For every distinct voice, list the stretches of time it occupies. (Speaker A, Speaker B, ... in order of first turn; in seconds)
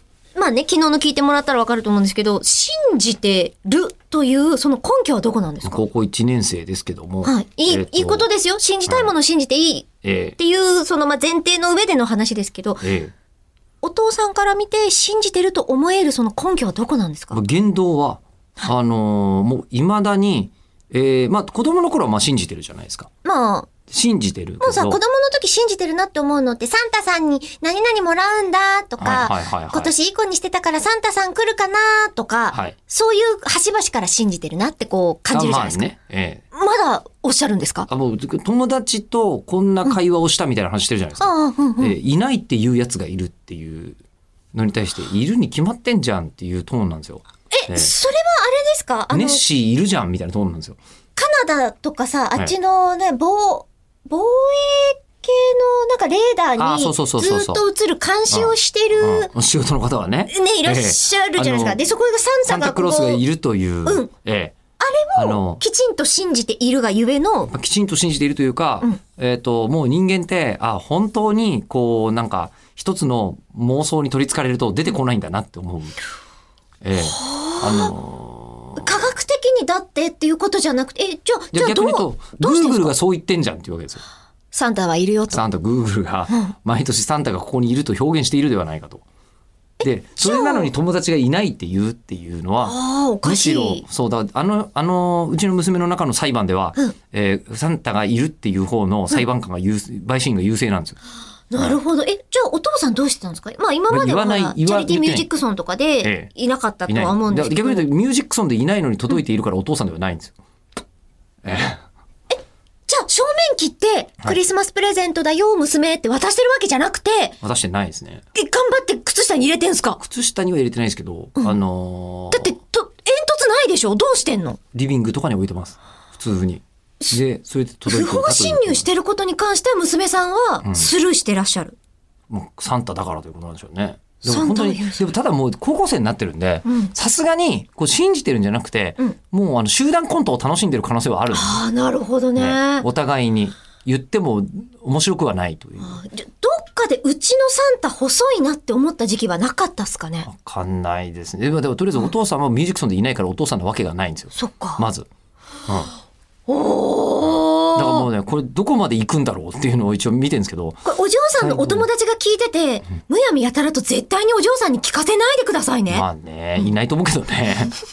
Speaker A: 0.3-5.8, 7.2-12.8, 13.8-17.4, 23.2-23.7, 24.6-35.8, 36.5-37.9, 41.2-42.0, 47.5-49.4, 51.1-59.3, 60.3-63.2, 64.8-67.5, 77.0-77.9, 78.8-82.9, 84.5-85.4, 89.8-90.7, 92.6-93.8, 101.5-107.9, 112.9-117.3, 118.3-120.0, 122.3-124.6, 127.8-131.8, 134.2-135.1, 136.7-136.9, 141.3-142.9, 145.8-150.3, 154.3-154.8, 156.5-158.1, 160.8-166.1
Speaker B: 5.6-8.3, 8.9-9.1, 10.0-10.3, 12.8-13.1, 17.3-23.1, 23.9-25.0, 29.0-29.9, 35.3-36.4, 37.9-44.0, 44.5-47.9, 49.1-50.8, 56.6-57.6, 58.3-61.8, 62.5-64.5, 65.2-65.6, 67.5-76.0, 76.8-79.0, 81.5-84.0, 85.3-89.0, 89.8-101.0, 103.9-105.3, 106.0-106.3, 106.9-110.3, 111.4-111.8, 117.4-118.2, 120.0-122.5, 124.7-128.8, 130.6-130.9, 132.3-141.6, 142.3-146.0, 150.2-155.1, 155.7-155.9, 157.7-160.8, 161.4-161.9, 165.9-167.7